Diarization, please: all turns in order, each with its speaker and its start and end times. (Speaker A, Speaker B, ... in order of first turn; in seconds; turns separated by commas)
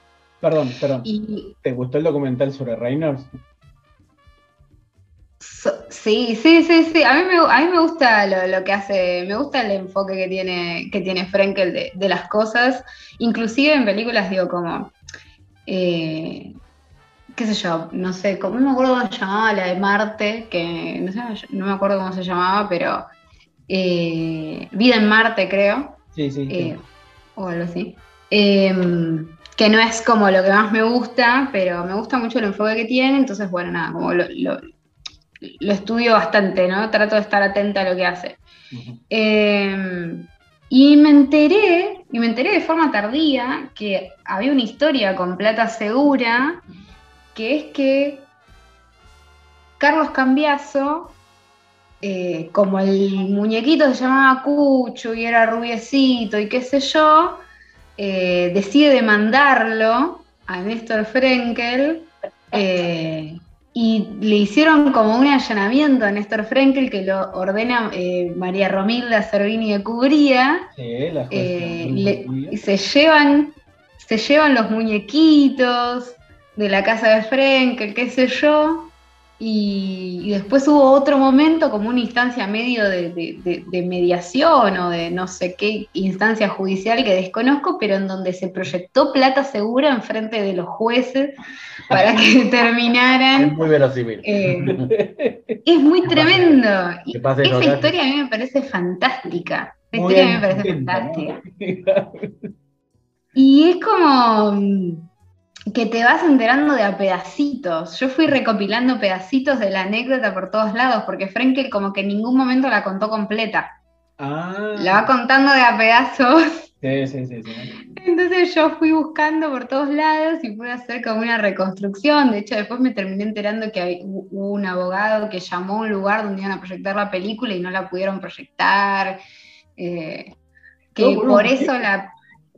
Speaker A: 0.4-1.1, Speaker B: 1.0-1.6, Speaker A: 1.6-3.3, Speaker B: 5.4-14.9, Speaker B: 15.7-16.6, Speaker B: 17.4-23.1, Speaker B: 23.7-26.8, Speaker A: 26.1-26.8, Speaker B: 27.4-34.6, Speaker B: 35.4-38.4, Speaker A: 38.7-39.0, Speaker B: 39.1-46.6, Speaker B: 47.4-48.3, Speaker B: 49.8-51.1, Speaker B: 52.0-57.4, Speaker B: 58.0-70.6, Speaker A: 70.8-72.6, Speaker B: 71.3-91.4, Speaker B: 91.9-93.6, Speaker C: 93.3-94.9, Speaker B: 94.2-94.8, Speaker A: 94.5-96.6, Speaker B: 95.6-101.4, Speaker C: 97.1-97.9, Speaker A: 99.9-102.4, Speaker B: 103.3-105.1, Speaker B: 105.7-113.7, Speaker A: 114.2-115.1, Speaker B: 114.8-116.7, Speaker A: 116.8-117.8, Speaker B: 117.9-129.2, Speaker B: 129.8-130.3, Speaker B: 130.9-132.1, Speaker A: 131.0-131.7